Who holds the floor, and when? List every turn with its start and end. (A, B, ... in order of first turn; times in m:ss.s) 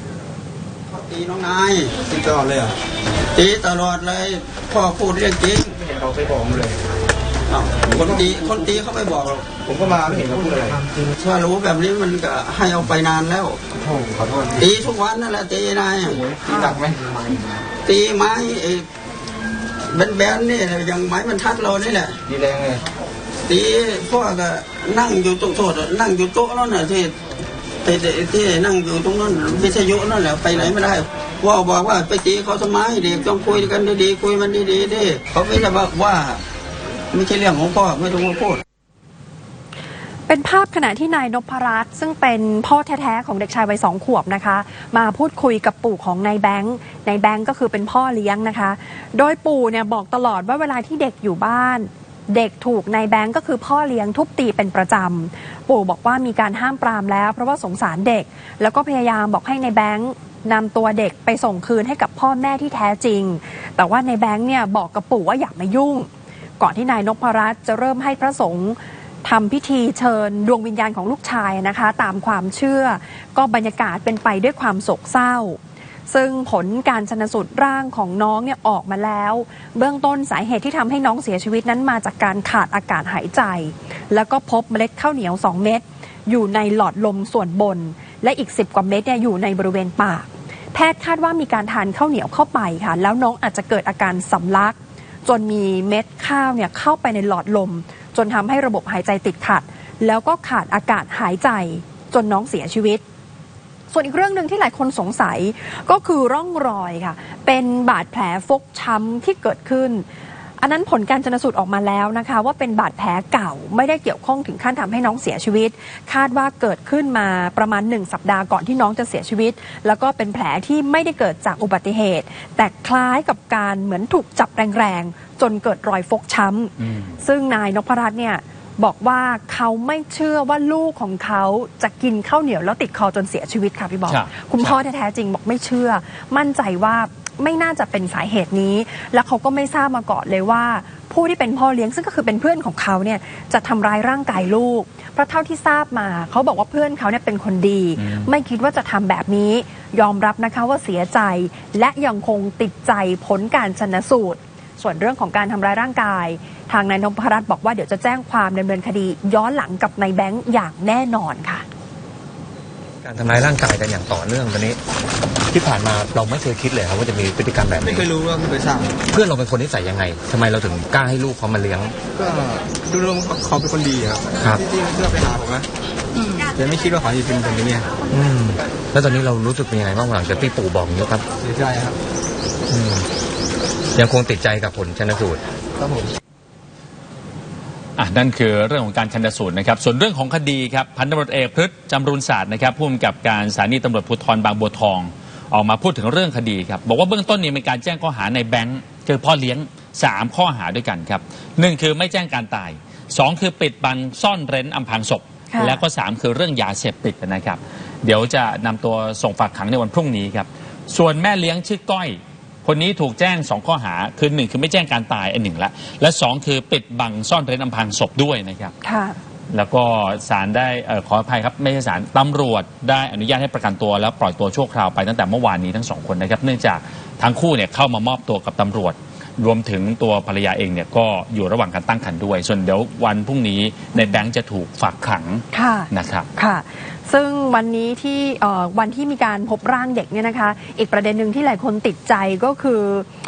0:00.9-0:02.0 A
0:02.1-0:02.7 B
0:03.3-0:05.8 A
0:05.8-0:06.8 B
0:07.5-0:09.5 A
0:09.5-0:10.8 B
0:11.2-0:13.6 A
0:13.8-0:14.7 B
0:14.6-0:16.2 A
0:16.2-0:17.4 B
0:17.8-0:18.9 A
0:19.9-0:22.2 A
0:22.3-0:22.8 B
0:23.5-0:27.2 A
0:27.8-0:36.4 A
0:37.1-0:38.6 A
0:40.3-1:43.0 C
1:43.9-1:50.0 C
1:50.6-2:41.6 C
2:06.8-2:07.1 D
2:14.1-2:14.8 D
2:28.0-2:28.3 D
2:43.0-2:44.8 E
2:45.5-2:48.1 E
2:47.8-2:49.0 B
2:49.1-2:52.0 E
2:52.2-2:55.7 B
2:54.4-2:54.6 E
2:56.4-2:57.9 B
2:58.1-3:01.2 E
3:01.4-3:02.0 B
3:02.7-3:03.1 E
3:03.9-3:05.4 E
3:05.8-3:06.1 B
3:08.0-3:38.7 D
3:25.5-3:25.8 C
3:38.8-3:39.2 C
3:39.5-3:56.3 D
3:54.0-3:54.2 C
3:55.5-4:03.1 C